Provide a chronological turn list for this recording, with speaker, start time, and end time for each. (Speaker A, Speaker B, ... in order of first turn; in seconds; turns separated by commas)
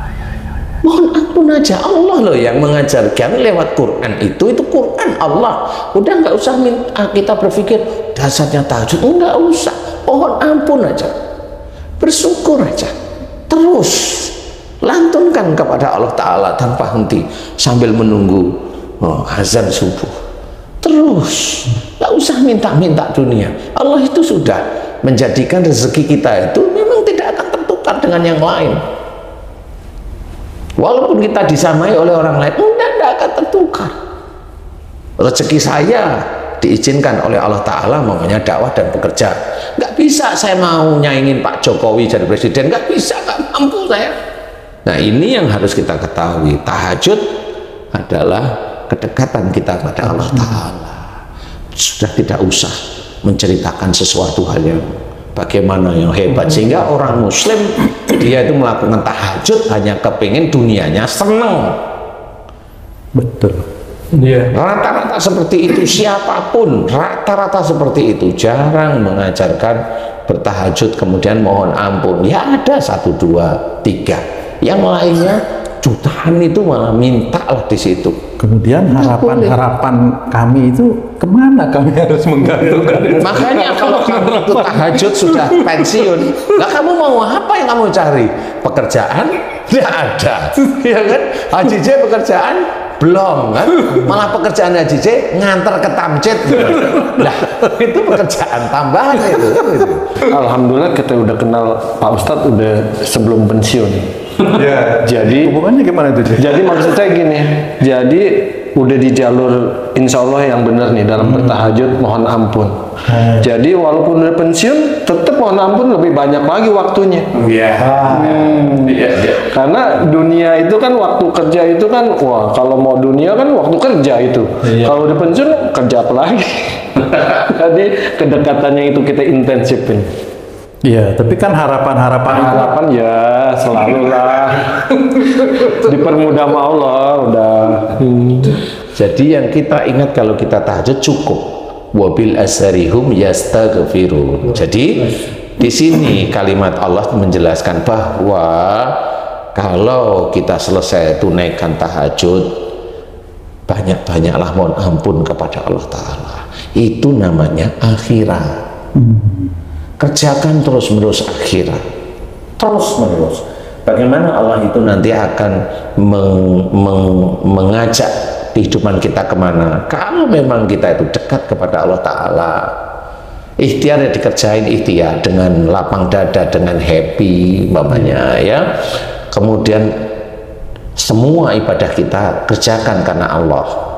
Speaker A: 0.8-11.1, Speaker A: 12.0-12.9, Speaker A: 13.5-20.1, Speaker A: 20.8-28.8, Speaker A: 30.8-33.9, Speaker A: 35.2-44.1, Speaker A: 44.8-47.3, Speaker A: 47.9-51.1, Speaker A: 51.8-61.8, Speaker B: 63.1-63.6, Speaker A: 64.5-78.2, Speaker B: 78.4-85.9, Speaker A: 79.0-79.5, Speaker A: 83.2-100.2, Speaker C: 100.2-105.5, Speaker B: 104.5-106.8, Speaker C: 106.3-112.8, Speaker B: 111.2-111.6, Speaker B: 113.1-113.5, Speaker C: 113.3-117.3, Speaker A: 117.4-119.4, Speaker C: 118.1-130.1, Speaker B: 130.8-132.7, Speaker C: 132.3-138.6, Speaker A: 138.9-149.0, Speaker A: 149.5-152.5, Speaker A: 153.7-158.6, Speaker B: 158.9-159.5, Speaker A: 160.0-161.8, Speaker A: 162.6-172.7, Speaker A: 173.6-178.7, Speaker A: 179.3-179.9, Speaker A: 180.9-183.8